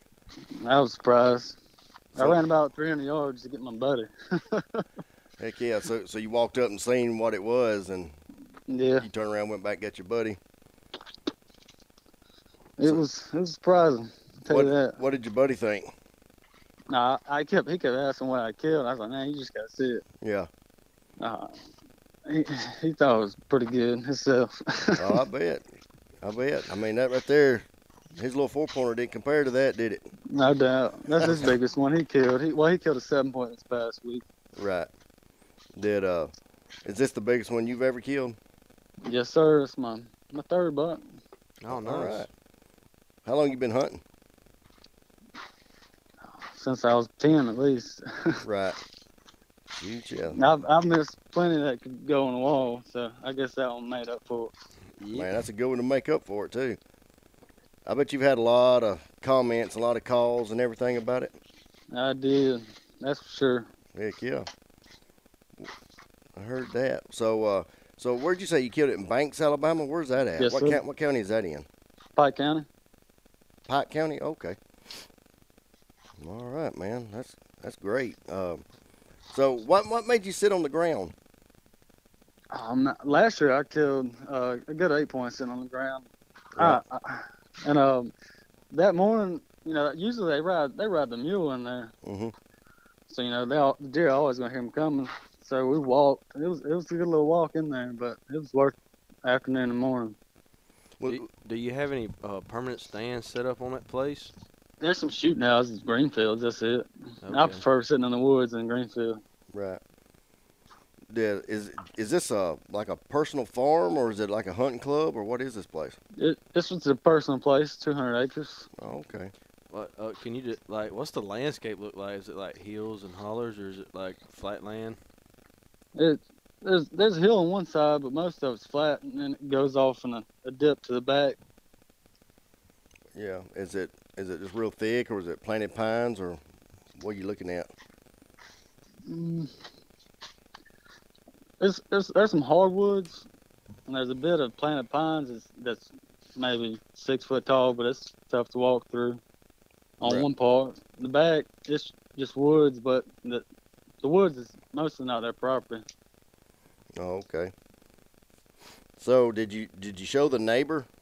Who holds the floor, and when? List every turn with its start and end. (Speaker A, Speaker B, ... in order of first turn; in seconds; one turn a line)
Speaker A: 0.6-1.6
Speaker B: 2.1-2.4
Speaker A: 2.2-4.8
Speaker B: 5.4-8.2
Speaker A: 8.7-9.1
Speaker B: 9.0-10.4
Speaker A: 12.8-15.0
Speaker B: 14.5-15.9
Speaker A: 16.9-20.0
Speaker B: 20.2-20.5
Speaker A: 21.2-21.6
Speaker A: 22.3-25.1
Speaker B: 25.0-25.7
Speaker B: 26.2-27.6
Speaker B: 28.2-30.1
Speaker A: 30.3-34.2
Speaker B: 31.2-31.5
Speaker B: 34.6-34.9
Speaker B: 35.8-36.3
Speaker B: 36.9-38.4
Speaker A: 39.1-41.0
Speaker C: 41.6-42.3
Speaker B: 41.7-42.3
Speaker B: 43.2-44.0
Speaker A: 46.5-48.4
Speaker B: 48.4-48.8
Speaker B: 49.8-50.4
Speaker A: 50.4-54.5
Speaker C: 55.0-55.3
Speaker B: 55.1-56.8
Speaker B: 57.9-61.4
Speaker A: 61.9-63.7
Speaker B: 64.0-64.5
Speaker B: 66.4-71.7
Speaker A: 70.4-70.8
Speaker A: 72.2-72.7
Speaker B: 73.7-74.6
Speaker B: 76.2-78.6
Speaker B: 79.3-81.1
Speaker A: 82.5-86.1
Speaker B: 86.6-86.8
Speaker A: 86.6-88.1
Speaker A: 88.7-91.9
Speaker B: 92.0-92.3
Speaker A: 93.1-100.2
Speaker C: 101.1-104.3
Speaker A: 104.8-109.2
Speaker C: 107.2-107.6
Speaker B: 109.5-109.8
Speaker B: 111.1-116.0
Speaker A: 116.2-118.7
Speaker B: 118.8-119.3
Speaker C: 119.7-125.0
Speaker A: 126.0-131.4
Speaker B: 133.2-136.4
Speaker B: 137.0-137.7
Speaker A: 139.1-139.5
Speaker A: 141.6-143.3
Speaker A: 143.9-149.2
Speaker A: 150.0-153.5
Speaker B: 150.0-150.3
Speaker A: 154.0-155.8
Speaker B: 157.0-157.5
Speaker B: 159.0-160.9